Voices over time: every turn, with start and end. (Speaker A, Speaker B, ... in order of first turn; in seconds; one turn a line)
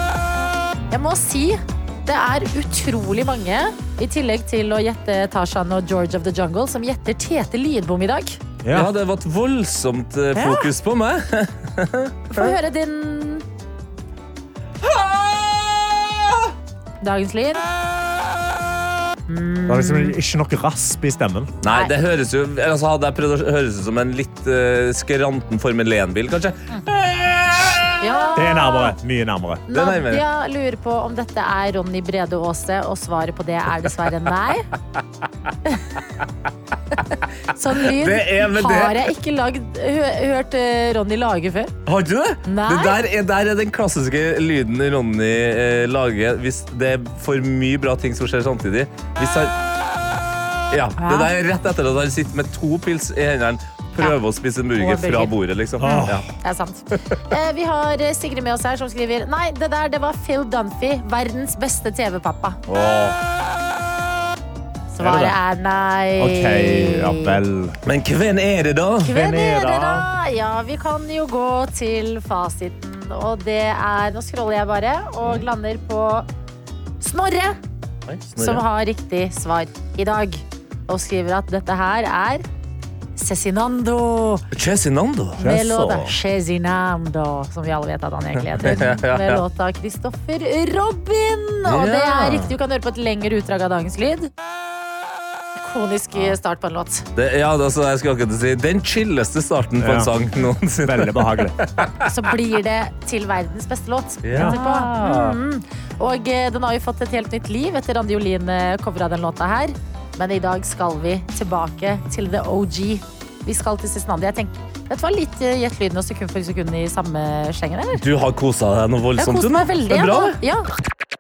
Speaker A: 0.9-8.4
Speaker B: 8.6-8.9
Speaker C: 8.7-12.5
Speaker A: 10.4-10.7
Speaker A: 12.3-13.4
Speaker C: 14.8-16.4
Speaker A: 17.0-17.6
Speaker A: 19.3-20.2
Speaker B: 19.7-21.5
Speaker C: 21.6-28.0
Speaker A: 21.7-21.9
Speaker A: 28.0-28.9
Speaker B: 28.4-29.7
Speaker A: 29.7-34.7
Speaker C: 29.7-30.2
Speaker A: 37.5-41.7
Speaker C: 37.8-39.1
Speaker C: 41.9-49.5
Speaker A: 42.5-43.0
Speaker C: 50.7-56.3
Speaker A: 51.0-51.4
Speaker A: 54.8-62.6
Speaker B: 55.8-56.2
Speaker C: 62.7-63.2
Speaker A: 64.9-67.4
Speaker B: 65.0-65.4
Speaker B: 66.2-67.8
Speaker C: 67.9-69.2
Speaker A: 69.0-76.3
Speaker B: 69.1-70.1
Speaker A: 77.0-77.6
Speaker C: 78.1-78.6
Speaker A: 78.4-82.5
Speaker A: 83.2-84.4
Speaker C: 84.5-85.4
Speaker B: 85.4-86.2
Speaker A: 85.4-94.3
Speaker C: 88.5-89.4
Speaker C: 91.7-92.5
Speaker A: 95.6-97.1
Speaker C: 97.2-102.1
Speaker B: 99.8-100.1
Speaker B: 100.8-101.6
Speaker A: 102.0-118.0
Speaker C: 104.2-105.4
Speaker B: 104.3-104.6
Speaker C: 118.0-120.4
Speaker A: 119.2-120.7